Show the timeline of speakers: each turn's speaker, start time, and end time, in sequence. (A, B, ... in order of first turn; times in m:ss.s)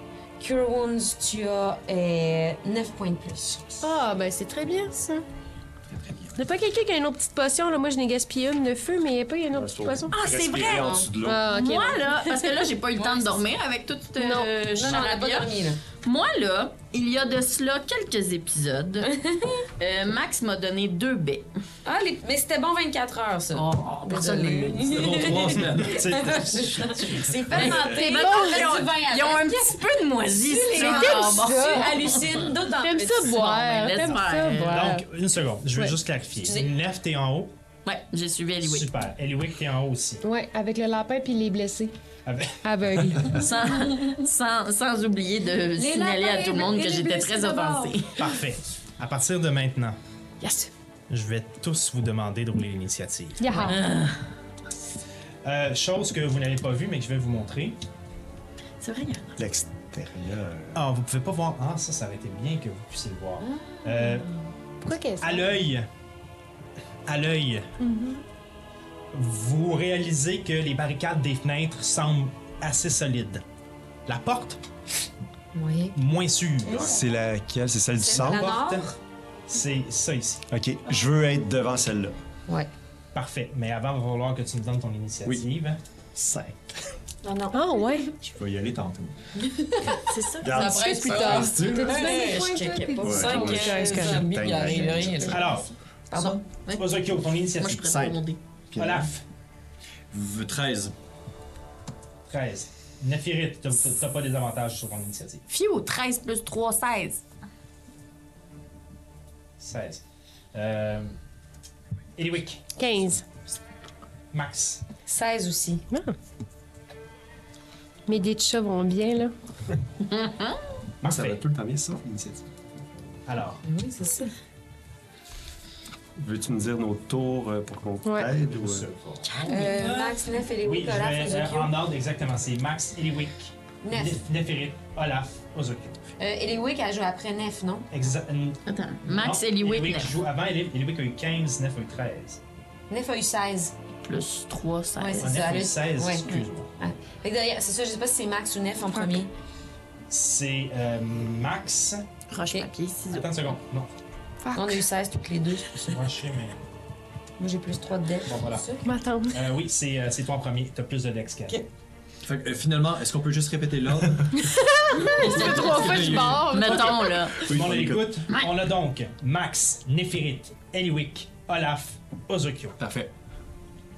0:00.4-0:03.8 A
0:03.8-0:05.2 B
0:05.9-0:06.4 C
0:06.3-0:10.2 B
0:09.5-0:11.4 D
0:10.1-0:11.1 A
0:11.2-0:12.2 B
0:11.5-0:19.1 E
0:12.9-0:13.4 A
0:14.2-0:14.5 B
0:14.6-0:15.8 A
0:19.1-0:19.6 A
0:19.8-0:21.5 E
0:21.8-0:33.4 A
0:23.5-0:25.3 E
0:24.8-0:26.7 C
0:25.8-0:27.4 F
0:27.5-0:28.0 C
0:27.5-0:32.4 E
0:28.0-0:28.6 B
0:30.7-0:31.9 B
0:32.8-0:35.0 B
0:33.2-0:34.9 E
0:34.7-0:37.5 F
0:36.4-0:36.7 A
0:37.8-0:38.9 E
0:38.6-0:40.2 F
0:40.2-0:41.9 B
0:42.2-0:43.2 F
0:42.6-0:43.5 B
0:43.3-0:48.2 E
0:45.8-0:48.0 A
0:48.2-0:50.0 F
0:50.4-0:50.7 B
0:51.1-0:53.6 F
0:53.4-0:53.8 B
0:53.6-0:54.2 E
0:55.4-0:57.8 F
0:58.8-0:59.3 E
0:59.4-1:00.8 D
1:00.7-1:04.3 F
1:03.4-1:04.4 A
1:04.8-1:05.6 B
1:05.2-1:05.9 F
1:07.1-1:07.7 F
1:07.8-1:08.2 B
1:09.1-1:13.4 F
1:14.1-1:14.6 F
1:15.5-1:16.0 A
1:15.9-1:17.0 F
1:16.7-1:18.6 D
1:18.0-1:18.9 A
1:18.0-1:19.0 F
1:19.5-1:20.4 F
1:20.5-1:22.1 D
1:23.1-1:25.8 F
1:26.1-1:26.6 D
1:27.2-1:28.1 A
1:27.5-1:28.1 B
1:28.3-1:29.1 D
1:30.0-1:35.6 E
1:30.4-1:31.9 D
1:30.4-1:34.7 B
1:31.2-1:35.5 A
1:33.0-1:35.4 D
1:35.3-1:35.7 F
1:36.1-1:36.4 A
1:36.1-1:38.4 E
1:36.7-1:38.0 F
1:37.8-1:38.2 D
1:38.7-1:39.1 D
1:38.8-1:39.2 F
1:40.1-1:40.9 C
1:42.3-1:45.4 F
1:45.5-1:47.2 E
1:49.6-1:51.2 F
1:52.2-1:52.8 F
1:52.8-1:53.2 B
1:54.3-1:54.8 F
1:55.0-1:55.8 A
1:55.9-1:56.1 B
1:58.1-1:59.3 B
2:00.1-2:00.6 E
2:01.0-2:01.4 F
2:01.0-2:02.4 D
2:03.3-2:03.6 F
2:03.6-2:04.3 A
2:06.2-2:08.9 D
2:08.0-2:08.3 B
2:08.4-2:16.0 F
2:09.4-2:11.7 A
2:13.8-2:14.2 A
2:16.2-2:17.9 A
2:17.9-2:22.4 F
2:18.6-2:20.1 E
2:22.9-2:23.7 A
2:24.0-2:25.3 E
2:25.0-2:29.3 A
2:25.2-2:26.7 F
2:30.1-2:32.0 F
2:32.3-2:33.3 E
2:33.1-2:33.9 F
2:34.4-2:34.8 B
2:34.5-2:36.0 A
2:35.8-2:36.6 F
2:37.4-2:38.9 A
2:38.2-2:38.7 F
2:38.8-2:39.4 B
2:39.3-2:41.6 F
2:42.2-2:44.5 C
2:44.4-2:47.3 B
2:45.1-2:46.8 C
2:45.2-2:47.4 E
2:47.3-2:48.2 D
2:47.5-2:52.8 F
2:52.8-2:53.1 C